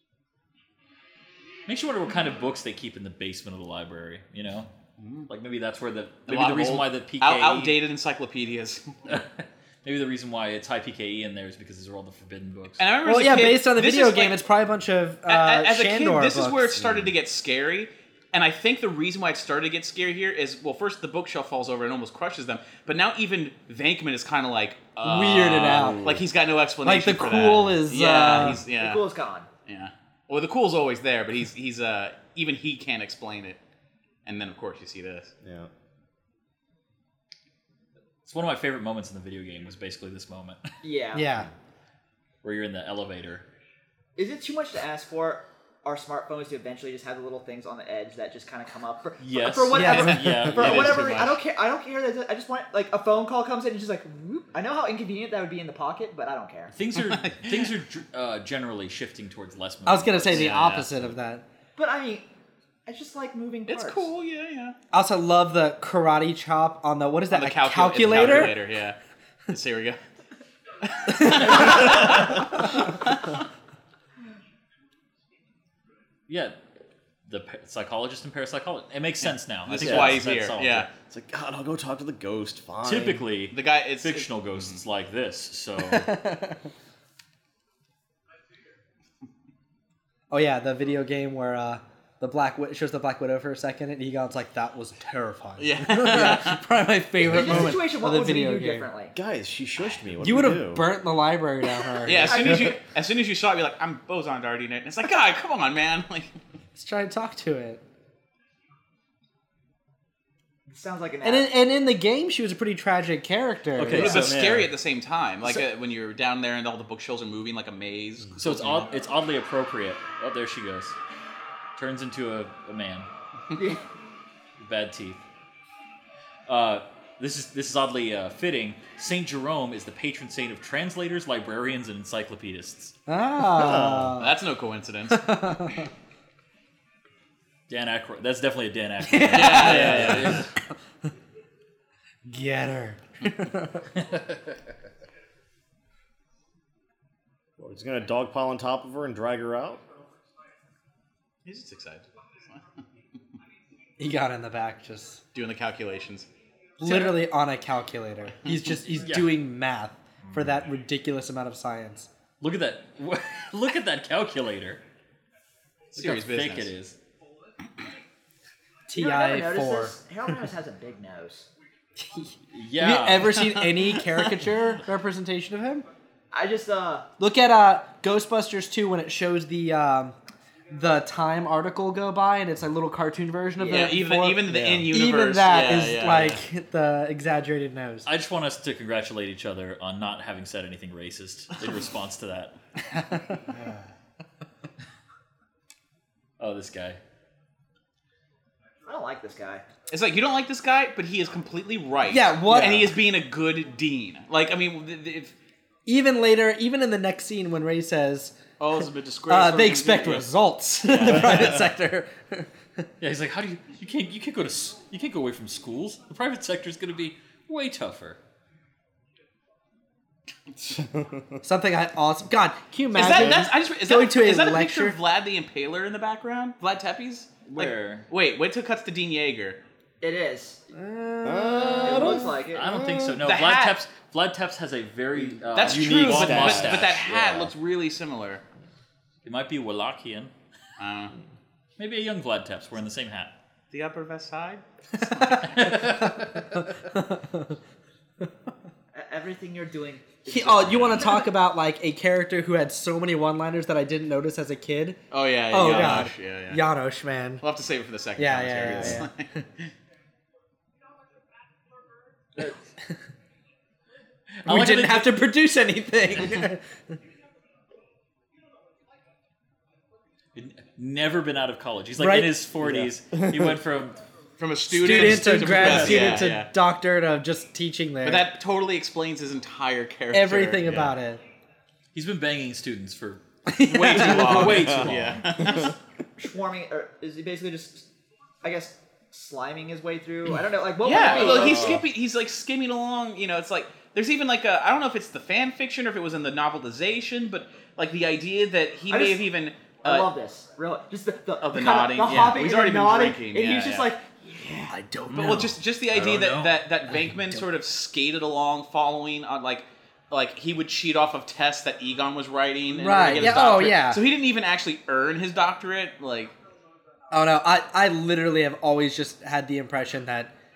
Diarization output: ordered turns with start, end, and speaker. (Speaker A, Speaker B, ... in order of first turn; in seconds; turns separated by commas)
Speaker A: 1.7-4.7, Speaker B: 5.0-5.3, Speaker A: 5.3-7.8, Speaker B: 6.3-9.0, Speaker A: 9.1-12.8, Speaker B: 12.8-14.4, Speaker C: 13.0-16.8, Speaker B: 15.3-29.0, Speaker D: 16.8-17.1, Speaker C: 25.0-26.0, Speaker D: 25.6-26.2, Speaker C: 26.8-28.6, Speaker E: 28.7-29.5, Speaker B: 29.7-33.6, Speaker B: 34.3-35.3, Speaker D: 35.4-35.7, Speaker A: 38.2-40.7, Speaker E: 40.8-41.3, Speaker C: 41.1-41.5, Speaker A: 42.4-43.5, Speaker E: 44.2-56.8, Speaker A: 49.2-51.3, Speaker C: 49.7-50.5, Speaker B: 49.9-51.4, Speaker A: 56.7-61.0, Speaker B: 57.1-57.7, Speaker C: 59.9-61.4, Speaker B: 60.3-60.9, Speaker E: 61.8-62.3, Speaker E: 62.9-64.1, Speaker B: 63.7-64.8, Speaker C: 64.9-68.6, Speaker B: 67.3-69.0, Speaker B: 69.5-70.0, Speaker B: 70.9-73.3, Speaker C: 71.1-71.6, Speaker A: 76.3-76.6, Speaker A: 77.3-80.9, Speaker B: 79.7-80.9, Speaker D: 79.8-80.3, Speaker D: 81.1-83.2, Speaker A: 82.8-86.2, Speaker B: 83.5-84.8, Speaker C: 85.9-86.6, Speaker C: 90.3-98.9, Speaker B: 95.6-96.6, Speaker E: 97.2-99.2, Speaker D: 99.2-100.9, Speaker C: 100.2-102.5, Speaker B: 102.0-106.3, Speaker E: 102.1-102.8, Speaker C: 106.8-107.8, Speaker E: 110.7-111.5, Speaker C: 111.2-114.2, Speaker A: 113.8-114.5, Speaker B: 113.9-118.9, Speaker D: 114.0-114.7, Speaker A: 118.4-121.0, Speaker A: 121.8-123.1, Speaker E: 123.5-123.8, Speaker A: 124.6-125.2, Speaker A: 126.5-132.9, Speaker C: 133.1-134.4, Speaker D: 133.5-134.2, Speaker B: 134.1-135.4, Speaker C: 135.1-135.9, Speaker A: 137.7-140.5, Speaker C: 139.1-140.5, Speaker B: 139.3-140.5, Speaker C: 142.3-143.9, Speaker A: 144.1-144.4, Speaker D: 147.6-149.8, Speaker B: 151.4-152.6, Speaker C: 154.0-155.2, Speaker B: 155.3-156.3, Speaker C: 156.8-162.1, Speaker B: 156.9-157.1, Speaker A: 158.9-159.3, Speaker A: 162.4-164.8, Speaker B: 165.9-166.7, Speaker A: 165.9-167.0, Speaker C: 168.9-169.9, Speaker E: 169.0-171.5, Speaker C: 172.0-175.8, Speaker A: 172.5-173.6, Speaker B: 173.4-174.1, Speaker E: 176.3-177.1, Speaker C: 177.2-180.2, Speaker C: 180.7-188.1, Speaker E: 183.6-184.0, Speaker B: 183.7-186.4, Speaker D: 184.5-184.9, Speaker A: 188.1-192.6, Speaker C: 192.9-193.8, Speaker A: 196.4-197.0, Speaker E: 198.9-199.6, Speaker B: 199.9-205.3, Speaker C: 202.1-203.0, Speaker C: 205.9-208.3, Speaker B: 208.6-210.3, Speaker C: 209.3-212.5, Speaker B: 210.9-211.7, Speaker A: 213.0-218.2, Speaker C: 221.4-225.0, Speaker B: 222.9-229.6, Speaker A: 227.4-228.1, Speaker E: 230.0-230.6, Speaker C: 230.7-232.3, Speaker D: 231.2-233.2, Speaker E: 231.8-232.7, Speaker A: 232.5-237.1, Speaker B: 233.2-233.8, Speaker D: 235.2-237.5, Speaker B: 235.5-238.4, Speaker A: 239.2-240.3, Speaker B: 240.8-241.1, Speaker A: 241.8-243.3, Speaker B: 243.7-245.5, Speaker C: 245.0-247.6, Speaker A: 245.3-246.6, Speaker E: 248.9-251.3, Speaker C: 250.3-255.0, Speaker B: 255.1-256.6, Speaker C: 255.5-257.4, Speaker B: 257.4-259.7, Speaker C: 258.2-259.1, Speaker D: 258.7-259.0, Speaker A: 264.4-265.2, Speaker C: 264.5-266.6, Speaker A: 270.4-274.0, Speaker C: 272.0-272.4, Speaker B: 274.4-276.5, Speaker C: 274.7-278.3, Speaker A: 274.8-276.2, Speaker B: 278.1-280.8, Speaker C: 280.1-281.2, Speaker A: 281.9-285.5, Speaker C: 283.5-284.7, Speaker B: 283.7-285.7, Speaker D: 284.6-284.9, Speaker E: 285.4-287.9, Speaker E: 288.4-291.8, Speaker B: 290.8-300.1, Speaker A: 291.1-291.6, Speaker E: 298.9-299.3, Speaker E: 299.8-304.8, Speaker B: 301.4-303.9, Speaker C: 304.7-305.5, Speaker A: 305.1-307.2, Speaker B: 305.1-316.4, Speaker C: 312.7-314.0, Speaker C: 317.1-320.3